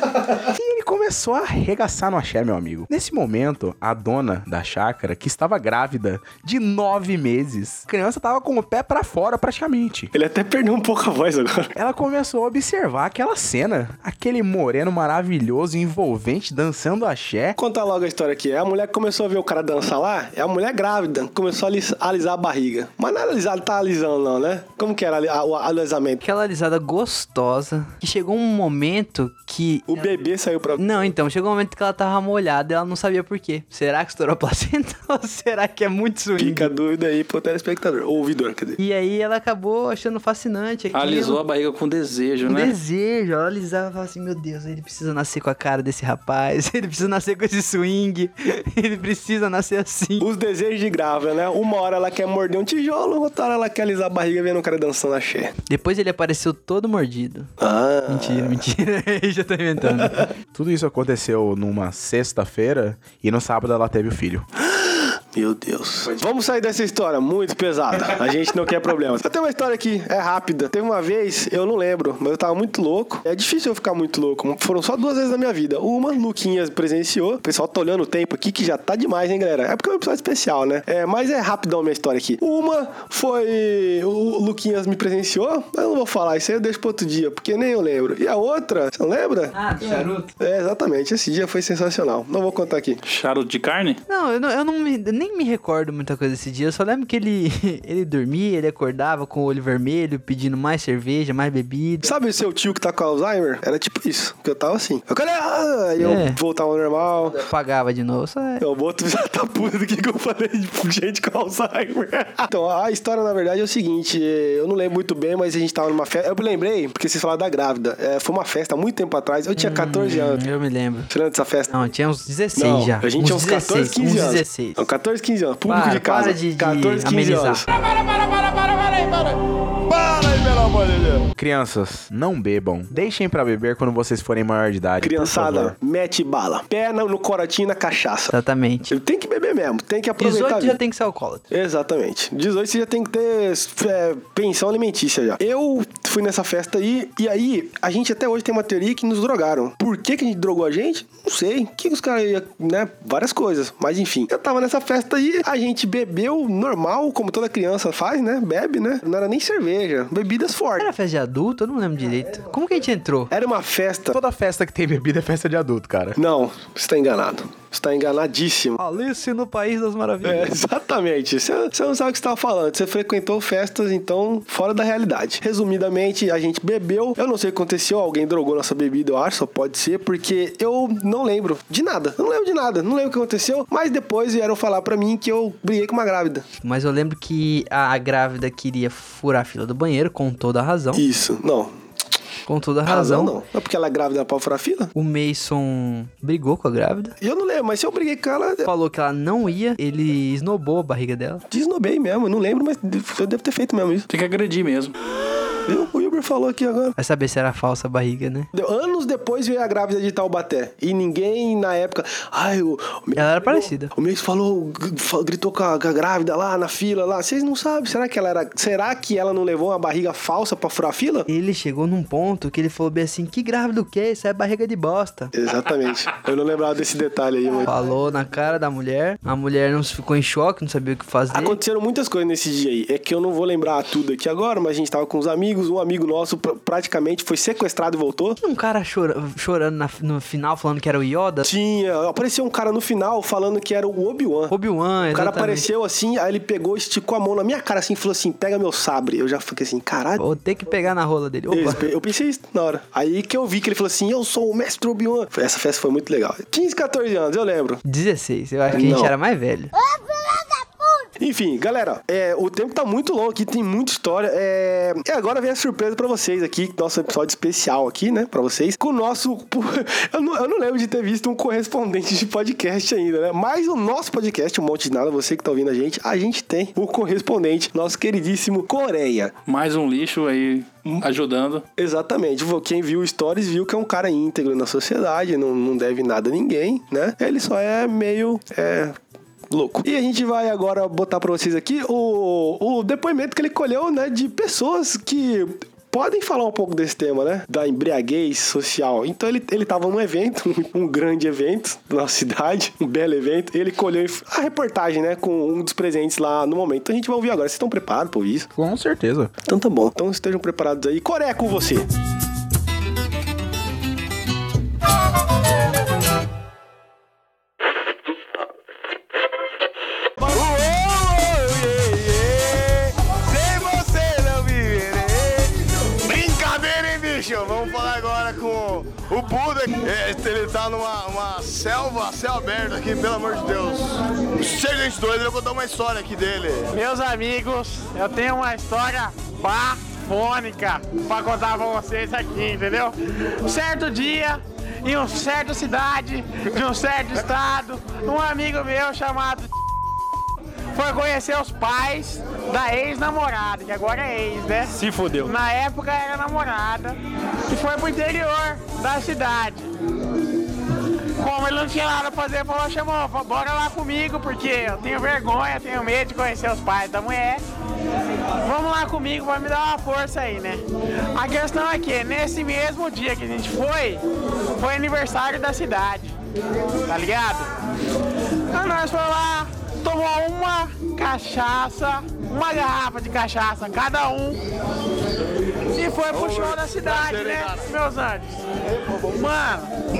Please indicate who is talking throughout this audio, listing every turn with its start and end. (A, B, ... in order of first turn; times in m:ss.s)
0:00.4-0:10.1 A
0:10.1-0:11.7 B
0:11.8-0:17.6 A
0:17.6-0:26.2 B
0:26.2-0:30.1 C
0:29.9-0:30.8 B
0:30.8-0:36.7 C
0:36.4-0:38.8 B
0:38.8-0:41.4 C
0:40.9-0:42.7 D
0:42.4-0:50.3 C
0:50.2-0:55.5 B
0:55.7-0:57.5 C
0:57.6-0:58.6 B
0:58.1-1:00.3 C
1:00.5-1:04.4 A
1:04.7-1:33.0 B
1:29.5-1:30.3 C
1:33.0-1:34.0 D
1:34.1-1:42.1 C
1:42.0-1:47.4 B
1:46.0-1:46.4 C
1:47.3-1:48.6 C
1:48.6-2:00.4 B
1:59.6-2:01.1 C
2:01.1-2:01.7 B
2:01.7-2:04.8 C
2:02.6-2:07.6 B
2:05.7-2:07.6 C
2:07.8-2:11.2 E
2:11.4-2:15.7 A
2:15.0-2:18.3 B
2:18.3-2:18.9 C
2:18.9-2:20.8 B
2:20.2-2:21.5 C
2:21.5-2:40.9 B
2:40.8-2:43.3 C
2:43.3-2:44.2 B
2:44.1-2:46.2 A
2:46.2-2:48.8 B
2:48.8-2:50.5 C
2:50.2-3:06.4 B
3:06.6-3:11.0 C
3:10.9-3:11.8 B
3:12.4-3:13.4 C
3:12.9-3:14.9 B
3:14.9-3:17.2 C
3:17.2-3:18.7 B
3:18.6-3:21.4 C
3:21.5-3:24.1 B
3:24.1-3:24.9 D
3:25.7-3:26.9 B
3:27.0-3:28.5 C
3:28.5-3:41.3 B
3:33.1-3:33.9 C
3:41.3-3:45.3 C
3:45.3-3:47.7 B
3:47.6-3:51.6 C
3:51.3-3:58.4 B
3:58.4-4:01.5 C
4:01.4-4:04.5 B
4:04.5-4:05.7 C
4:05.1-4:10.2 B
4:10.2-4:11.9 C
4:11.5-4:17.8 B
4:17.8-4:19.7 C
4:18.7-4:19.1 B
4:21.2-4:39.3 B
4:39.5-4:41.6 D
4:41.8-4:49.0 B
4:49.5-5:08.5 B
5:08.5-5:09.3 A
5:09.4-5:11.9 B
5:20.2-5:36.7 E
5:36.7-5:49.5 F
5:50.7-5:56.9 F
5:54.8-5:55.2 B
5:57.5-5:59.7 F
6:01.2-6:07.4 F
6:08.4-6:10.6 F
6:11.1-6:14.0 F
6:14.6-6:16.1 F
6:16.8-6:17.5 F
6:18.5-6:24.4 F
6:25.7-6:28.4 F
6:26.1-6:27.6 E
6:29.0-6:29.7 F